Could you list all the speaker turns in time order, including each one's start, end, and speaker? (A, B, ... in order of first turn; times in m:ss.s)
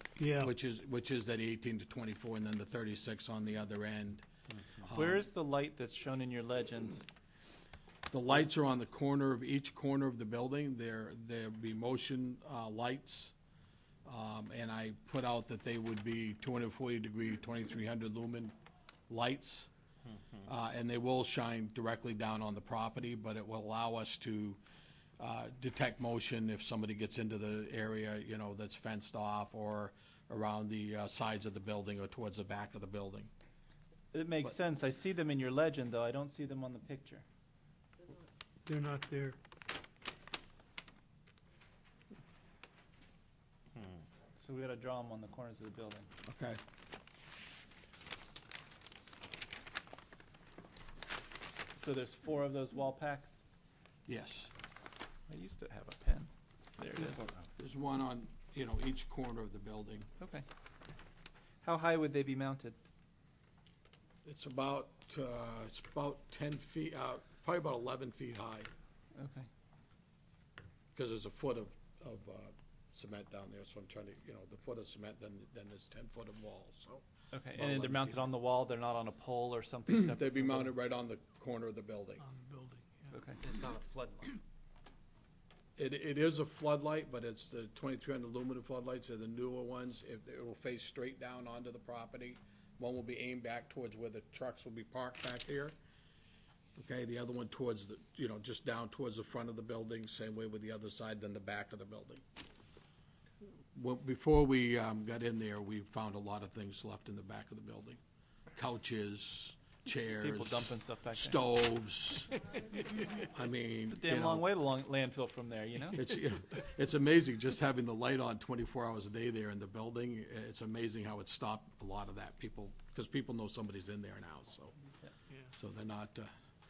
0:00.2-0:00.5 A
0:00.3-0:04.2 B
0:04.8-0:05.2 B
0:04.9-0:07.0 C
0:08.1-0:13.3 B
0:14.0-0:18.5 B
0:19.1-0:19.7 B
0:20.4-0:24.6 B
0:25.2-0:33.3 B
0:34.1-0:37.2 C
0:38.6-0:39.4 A
0:44.4-0:46.1 C
0:46.2-0:46.6 B
0:51.7-0:53.4 C
0:54.1-0:54.5 B
0:55.3-0:57.3 C
0:57.5-1:00.1 B
1:00.2-1:00.4 C
1:01.6-1:02.8 C
1:04.2-1:08.7 B
1:09.2-1:09.5 C
1:10.9-1:17.0 B
1:17.3-1:20.7 C
1:17.5-1:18.3 B
1:20.0-1:22.2 B
1:22.2-1:23.6 A
1:23.1-1:23.4 C
1:25.8-1:35.8 B
1:36.8-1:42.2 B
1:43.7-1:48.0 B
1:48.5-1:52.4 B
1:50.2-1:51.4 C
1:53.1-1:54.5 B
1:53.8-1:56.0 C
1:55.9-2:04.7 B
2:05.5-2:06.3 B